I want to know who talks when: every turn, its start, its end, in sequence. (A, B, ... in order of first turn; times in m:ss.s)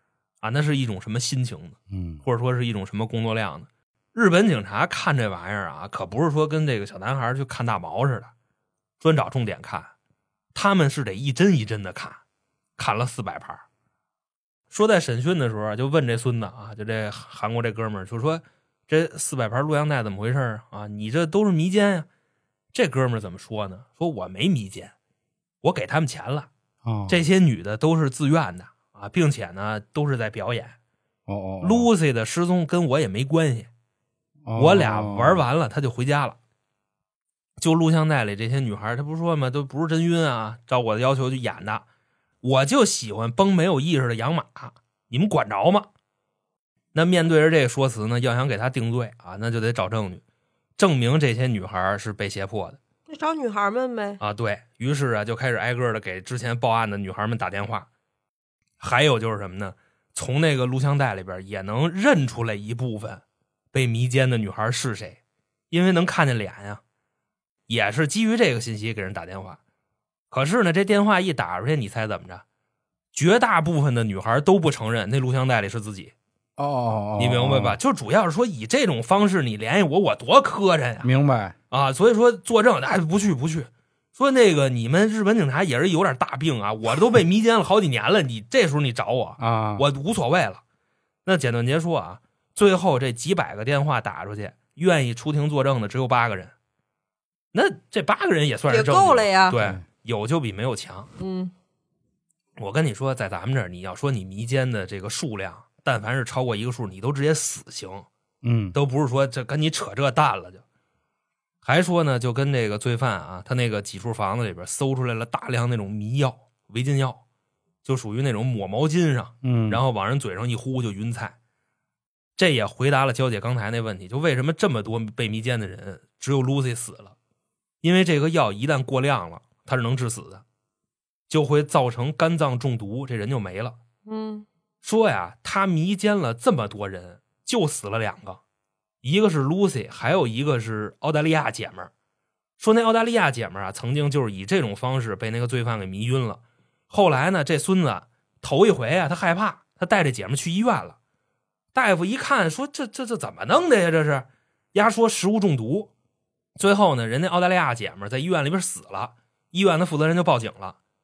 0:00.4-0:08.3 A
0:01.9-0:02.2 B
0:09.0-0:09.9 A
0:10.5-0:12.2 A
0:12.8-0:13.6 A
0:14.7-0:22.1 A
0:22.7-0:24.9 A
0:25.6-0:26.5 A
0:26.8-0:27.2 B
0:27.1-0:30.8 A
0:31.3-0:31.9 B
0:31.6-0:33.7 A
0:34.5-0:35.4 B
0:34.6-0:36.4 A
0:37.6-0:41.8 A
0:42.4-0:45.9 A
0:46.9-0:50.2 A
0:50.8-0:52.8 A
0:53.1-0:54.2 C
0:54.2-0:57.9 A
0:58.8-1:05.2 A
1:05.7-1:06.8 A
1:07.7-1:09.6 A
1:10.3-1:12.4 A
1:13.1-1:16.1 A
1:16.6-1:17.8 B
1:17.2-1:21.1 A
1:21.0-1:21.6 B
1:21.7-1:30.6 A
1:29.4-1:29.9 B
1:31.2-1:36.5 A
1:37.5-1:41.1 A
1:38.7-1:39.6 C
1:41.2-1:41.5 C
1:42.6-1:48.1 A
1:48.4-1:48.8 B
1:48.7-1:50.6 A
1:51.6-1:57.2 A
1:57.8-2:01.4 A
1:59.4-1:59.8 B
2:02.4-2:07.2 A
2:07.8-2:10.4 A
2:11.3-2:13.8 A
2:14.1-2:14.5 C
2:14.8-2:18.4 A
2:19.0-2:21.9 A
2:22.6-2:31.0 A
2:31.7-2:35.9 A
2:36.6-2:40.8 A